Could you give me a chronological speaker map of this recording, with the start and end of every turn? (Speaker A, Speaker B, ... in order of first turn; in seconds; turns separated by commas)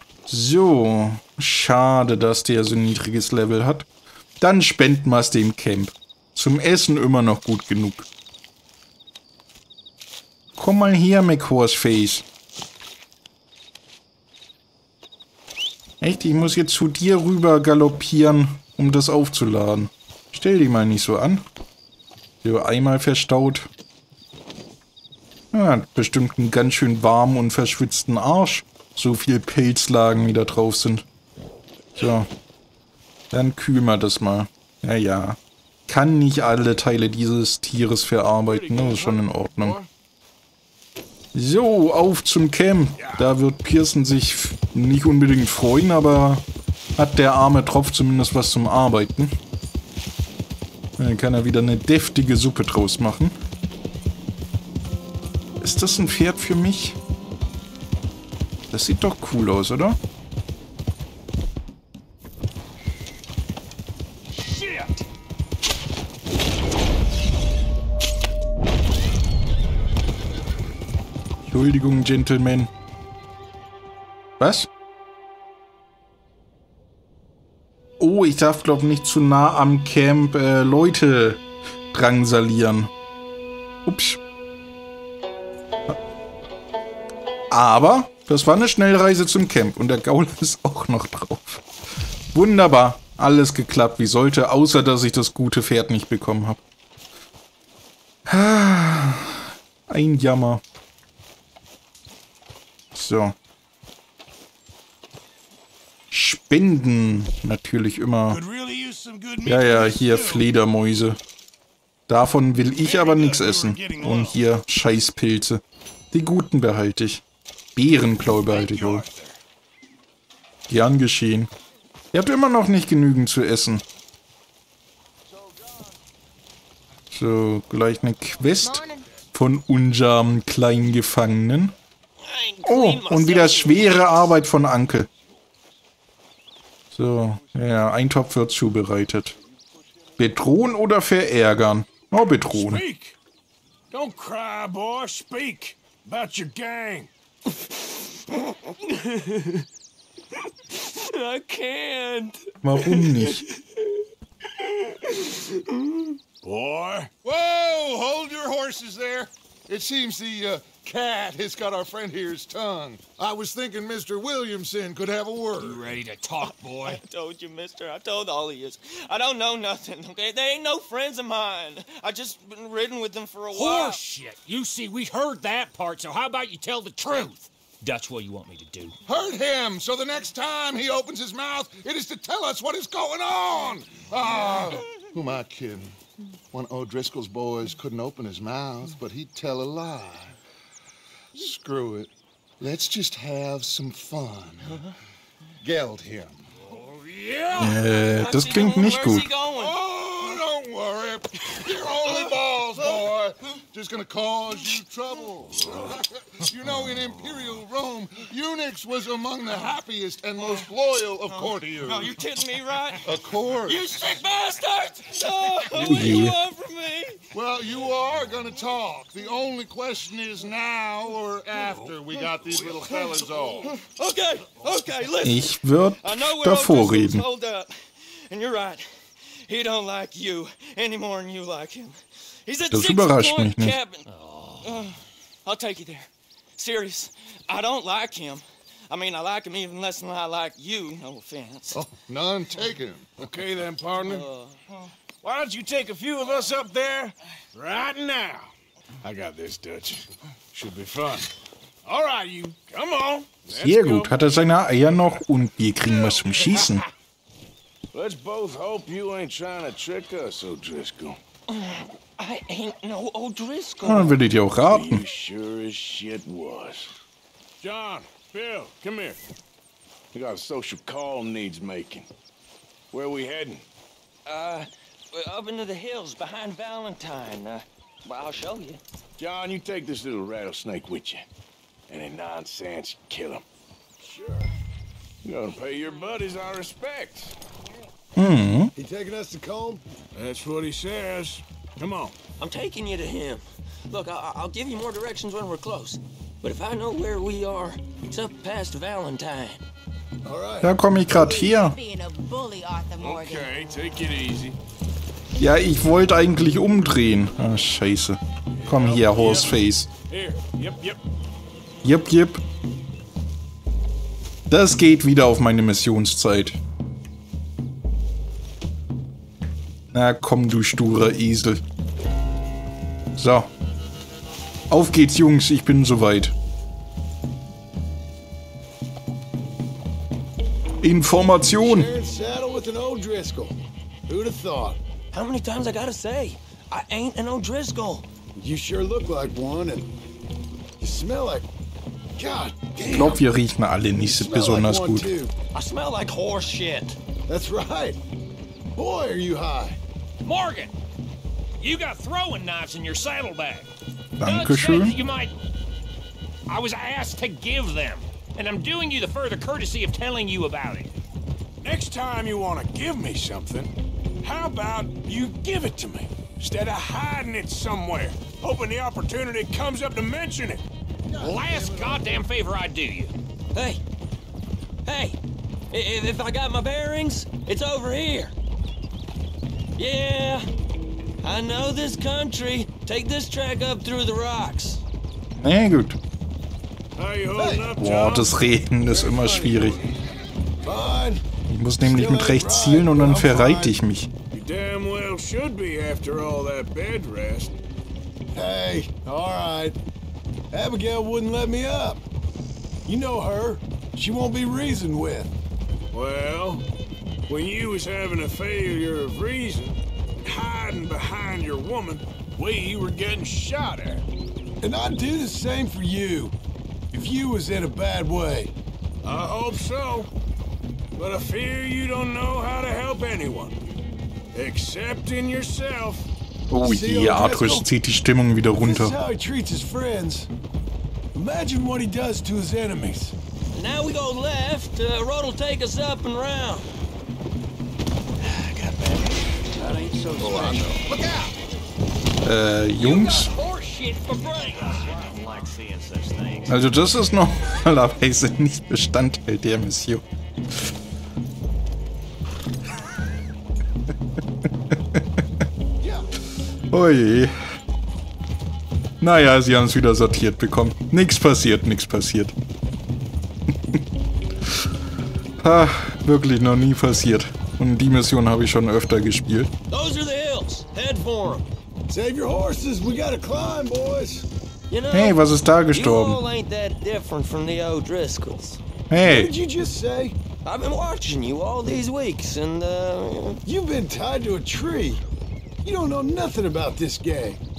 Speaker A: 0.3-3.9, Speaker A: 4.4-8.1, Speaker A: 10.6-12.2, Speaker A: 16.0-21.4, Speaker A: 22.4-23.7, Speaker A: 25.5-31.1, Speaker A: 32.0-32.3, Speaker A: 33.3-39.8, Speaker B: 38.4-39.9, Speaker A: 41.3-46.5, Speaker B: 43.0-43.3, Speaker A: 47.0-49.4, Speaker A: 51.0-53.4, Speaker A: 55.6-57.0, Speaker A: 58.7-60.0, Speaker C: 64.4-65.0, Speaker A: 71.5-72.7, Speaker A: 74.4-74.7, Speaker A: 78.0-82.9, Speaker A: 83.8-84.2, Speaker A: 87.5-91.6, Speaker A: 92.3-96.6, Speaker A: 98.3-100.6, Speaker A: 103.0-103.3, Speaker A: 106.1-108.4, Speaker B: 108.3-110.5, Speaker A: 109.5-111.2, Speaker A: 112.1-117.2, Speaker B: 112.8-114.4, Speaker A: 117.8-119.1, Speaker B: 118.5-119.4, Speaker A: 120.7-121.5, Speaker A: 122.1-123.8, Speaker A: 127.1-131.8, Speaker D: 128.7-129.0, Speaker E: 132.2-134.4, Speaker A: 132.7-135.1, Speaker A: 136.9-139.3, Speaker A: 140.2-142.8, Speaker B: 142.5-143.2, Speaker B: 143.9-147.1, Speaker E: 148.8-149.6, Speaker E: 150.8-153.4, Speaker A: 152.6-153.4, Speaker E: 155.9-156.1, Speaker B: 156.4-157.1, Speaker F: 157.2-165.9, Speaker C: 165.6-167.0, Speaker E: 166.8-174.0, Speaker C: 173.5-179.0, Speaker F: 179.1-185.9, Speaker F: 186.5-190.3, Speaker F: 191.3-194.8, Speaker F: 195.8-196.3, Speaker E: 197.0-199.8, Speaker A: 197.6-199.3, Speaker F: 199.5-212.2, Speaker E: 211.8-217.2, Speaker F: 213.0-214.1, Speaker A: 215.8-216.4, Speaker F: 217.3-223.7, Speaker B: 222.5-222.8, Speaker E: 223.6-228.8, Speaker A: 225.2-227.2, Speaker E: 229.5-234.1, Speaker A: 232.7-233.8, Speaker C: 234.1-234.8, Speaker E: 235.4-241.9, Speaker F: 241.7-243.2, Speaker B: 243.2-244.3, Speaker E: 244.1-244.6, Speaker B: 245.2-248.5, Speaker B: 249.0-251.3, Speaker B: 251.8-254.2, Speaker A: 253.5-256.8, Speaker B: 254.8-255.2, Speaker B: 255.9-256.9, Speaker B: 257.9-261.2, Speaker E: 261.5-264.2, Speaker A: 263.8-265.0, Speaker B: 264.6-266.9, Speaker B: 267.6-269.2, Speaker B: 270.1-272.1, Speaker B: 272.9-273.6, Speaker E: 274.3-278.8, Speaker B: 279.2-281.2, Speaker B: 281.9-283.4, Speaker G: 284.1-284.5, Speaker B: 285.2-287.4, Speaker A: 288.2-288.7, Speaker G: 288.8-289.8, Speaker B: 290.1-292.1, Speaker E: 292.4-299.6, Speaker G: 300.2-301.2, Speaker A: 300.6-301.8, Speaker D: 301.3-303.5, Speaker B: 303.0-304.6, Speaker A: 305.4-309.9, Speaker B: 308.5-311.0, Speaker A: 311.8-312.4, Speaker A: 314.5-316.6, Speaker A: 319.9-321.6, Speaker A: 323.2-323.5, Speaker A: 324.7-326.4, Speaker A: 330.8-331.9, Speaker G: 331.4-333.6, Speaker G: 334.1-334.8, Speaker E: 335.1-338.1, Speaker G: 338.4-339.9, Speaker G: 340.8-341.5, Speaker G: 342.2-343.3, Speaker A: 342.9-345.1, Speaker G: 344.0-345.3, Speaker E: 345.6-347.0, Speaker G: 347.3-348.0, Speaker G: 348.8-349.8, Speaker C: 350.2-350.8, Speaker C: 351.6-353.7, Speaker A: 354.2-355.0, Speaker C: 354.2-355.4, Speaker C: 356.5-360.9, Speaker B: 361.6-370.6, Speaker G: 371.1-372.0, Speaker C: 371.2-373.1, Speaker E: 373.5-373.8, Speaker E: 374.9-375.2, Speaker E: 375.7-378.3, Speaker E: 379.8-380.5, Speaker E: 381.2-384.8, Speaker A: 385.4-386.0, Speaker B: 387.0-388.3, Speaker G: 387.3-387.8, Speaker A: 387.8-389.8, Speaker G: 388.8-389.9, Speaker G: 390.6-391.2, Speaker A: 391.5-394.1, Speaker G: 391.8-393.8, Speaker B: 394.3-397.5, Speaker G: 398.3-399.8, Speaker G: 400.5-402.0, Speaker G: 402.9-405.3, Speaker B: 405.9-406.7, Speaker B: 407.3-414.1, Speaker G: 414.6-416.4, Speaker G: 416.9-418.5, Speaker B: 419.0-420.1, Speaker B: 421.0-423.6, Speaker B: 424.3-426.1, Speaker A: 426.5-429.0, Speaker G: 426.6-427.7, Speaker G: 428.6-430.3, Speaker G: 431.1-433.1, Speaker E: 433.5-436.7, Speaker G: 438.3-441.0, Speaker A: 442.2-443.3, Speaker C: 442.8-446.5, Speaker E: 445.0-446.5, Speaker A: 446.5-450.0, Speaker A: 454.4-455.2, Speaker G: 455.8-456.1, Speaker A: 456.7-457.3, Speaker A: 459.0-462.3, Speaker A: 463.5-463.8, Speaker A: 465.4-469.5, Speaker E: 469.7-471.5, Speaker G: 471.9-474.3, Speaker E: 474.7-478.6, Speaker A: 474.9-476.2, Speaker A: 478.9-479.3, Speaker G: 479.0-480.2, Speaker E: 480.4-483.4, Speaker G: 483.4-485.0, Speaker G: 485.6-487.4